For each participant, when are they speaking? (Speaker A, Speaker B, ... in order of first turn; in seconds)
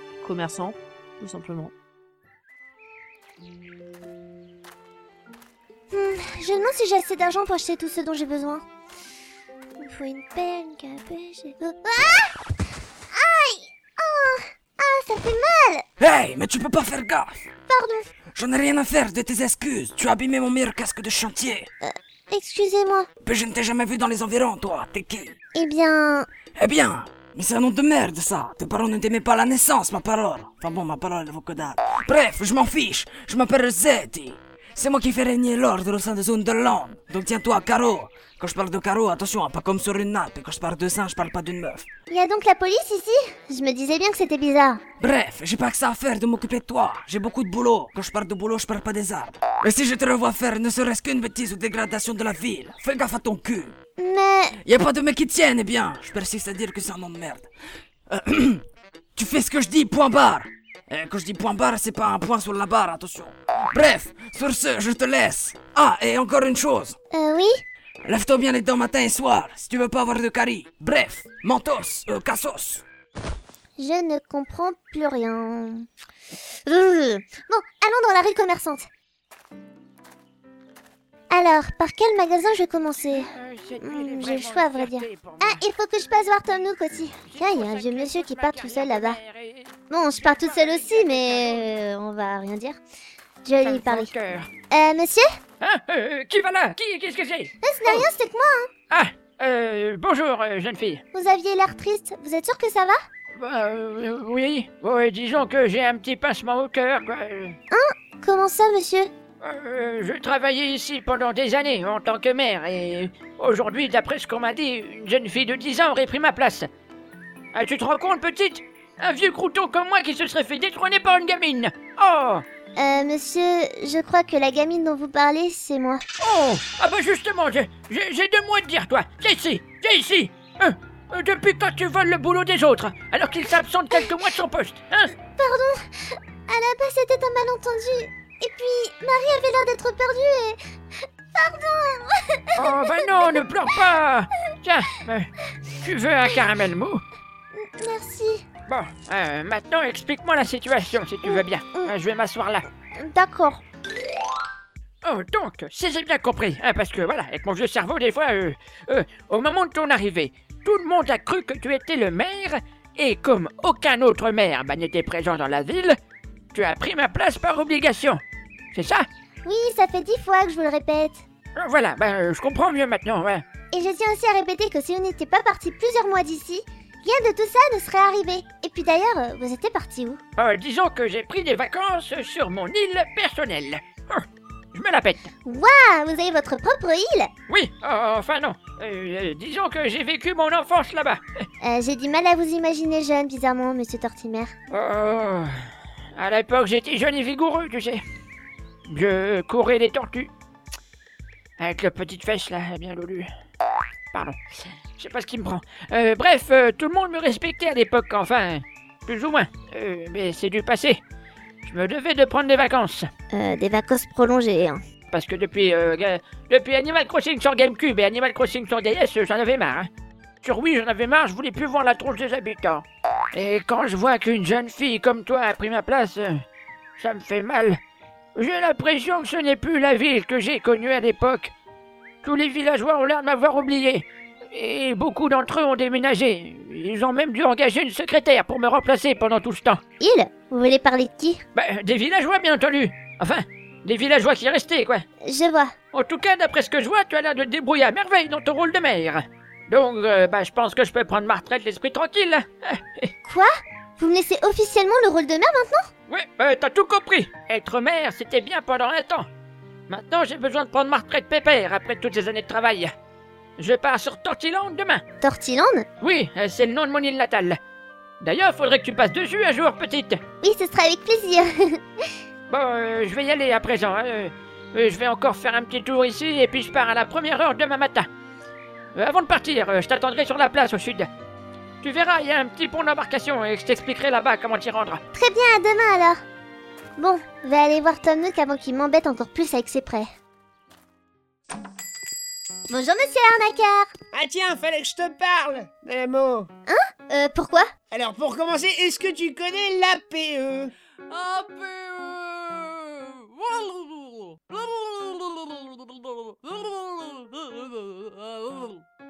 Speaker A: 0.2-1.7, 301.3-301.6, 303.3-308.8
Speaker B: 5.9-8.6, 9.8-12.4, 13.1-15.8, 17.7-18.1, 21.8-23.1, 25.6-26.3, 42.1-44.8, 54.0-54.5, 67.1-67.6, 73.8-75.9, 76.7-78.9, 81.3-89.2, 89.9-92.8, 93.5-94.1, 94.7-95.3, 97.6-98.7, 101.1-103.0, 107.7-109.1, 122.8-126.0, 135.4-140.6, 141.3-143.3, 147.6-148.4, 151.2-151.9, 153.0-153.6, 169.4-171.2, 173.7-180.2, 185.5-187.3, 191.6-194.5, 213.3-214.8, 240.0-241.4, 245.2-245.7, 253.2-255.9, 265.2-265.9, 270.4-272.1, 285.1-286.2, 287.0-290.1, 292.7-293.9, 296.7-297.7
Speaker C: 16.0-17.4, 18.4-21.7, 23.2-25.4, 26.6-41.9, 45.0-53.8, 54.6-57.5, 58.1-58.6, 59.2-67.0, 68.0-72.8
Speaker D: 83.1-85.6, 87.3-91.7, 93.6-94.5, 95.6-98.1, 98.9-101.0, 103.4-107.6, 109.4-116.7, 117.5-122.4, 126.2-135.1, 142.6-147.0, 148.7-152.7, 155.0-166.0, 166.5-168.2, 168.7-169.1, 171.6-173.4, 180.4-185.3, 187.5-191.2, 194.7-195.6, 196.2-198.0, 198.9-200.3, 201.6-203.3, 205.0-211.0, 211.6-213.1, 215.1-219.9, 220.4-226.4, 227.0-227.8, 228.4-231.5, 232.2-239.8, 241.6-245.0, 245.9-253.1, 256.1-259.3, 259.9-262.9, 263.6-265.0, 266.0-267.6, 268.2-270.2, 272.5-278.1, 278.9-281.1, 281.8-285.0
Speaker E: 294.1-296.5, 297.9-300.7